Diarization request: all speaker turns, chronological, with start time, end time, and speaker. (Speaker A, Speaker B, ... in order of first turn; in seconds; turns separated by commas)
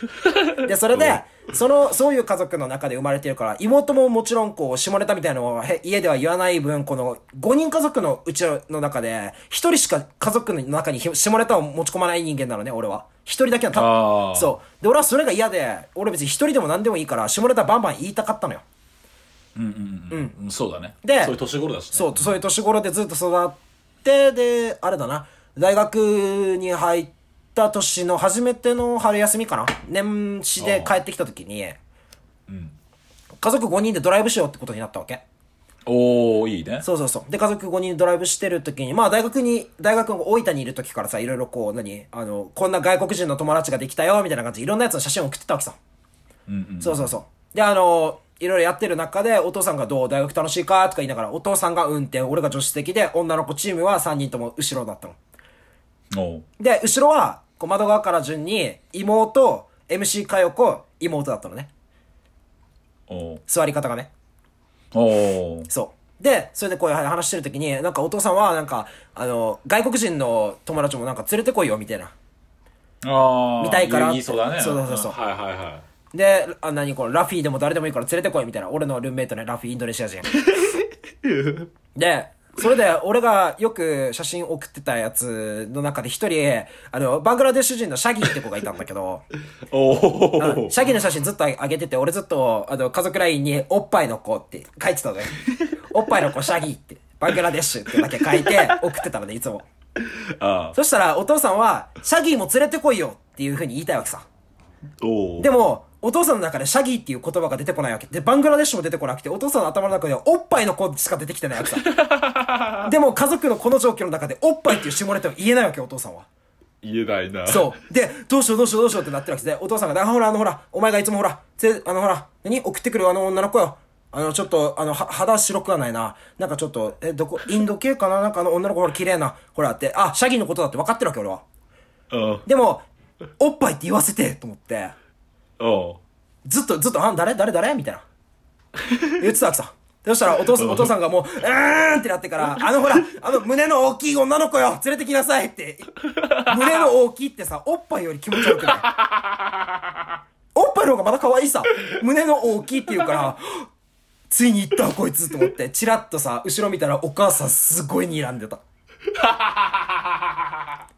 Speaker A: 0.2-1.2, Speaker B: 0.5-18.6, Speaker A: 13.7-14.6, Speaker A: 19.6-22.4, Speaker B: 20.1-20.4, Speaker B: 21.0-21.4, Speaker B: 21.9-31.8, Speaker A: 30.6-30.9, Speaker A: 32.5-32.8, Speaker B: 33.4-35.2, Speaker A: 35.9-36.9, Speaker B: 36.8-45.8, Speaker A: 46.5-47.1, Speaker B: 46.8-55.2, Speaker A: 56.1-56.5, Speaker B: 56.6-61.7, Speaker A: 63.1-63.4, Speaker B: 63.5-64.1, Speaker A: 64.9-65.7, Speaker B: 65.7-72.1, Speaker A: 73.0-75.8, Speaker B: 73.6-75.2, Speaker B: 76.1-80.3, Speaker A: 80.4-81.7, Speaker B: 82.0-89.2, Speaker A: 89.7-90.8, Speaker B: 90.4-95.4, Speaker B: 95.9-99.7, Speaker A: 98.2-98.7, Speaker A: 100.0-100.8, Speaker B: 100.8-104.2, Speaker A: 105.0-105.5, Speaker B: 105.4-111.8, Speaker A: 111.8-112.9, Speaker B: 112.8-116.3, Speaker A: 116.8-117.8, Speaker B: 117.5-131.4, Speaker A: 132.1-132.4, Speaker B: 132.5-132.9, Speaker B: 133.4-134.9, Speaker A: 135.6-136.0, Speaker B: 136.4-138.1, Speaker B: 139.2-148.9, Speaker A: 140.5-140.9, Speaker A: 146.2-146.8, Speaker A: 148.7-149.8, Speaker B: 150.5-153.6, Speaker B: 154.3-158.6, Speaker A: 159.1-160.3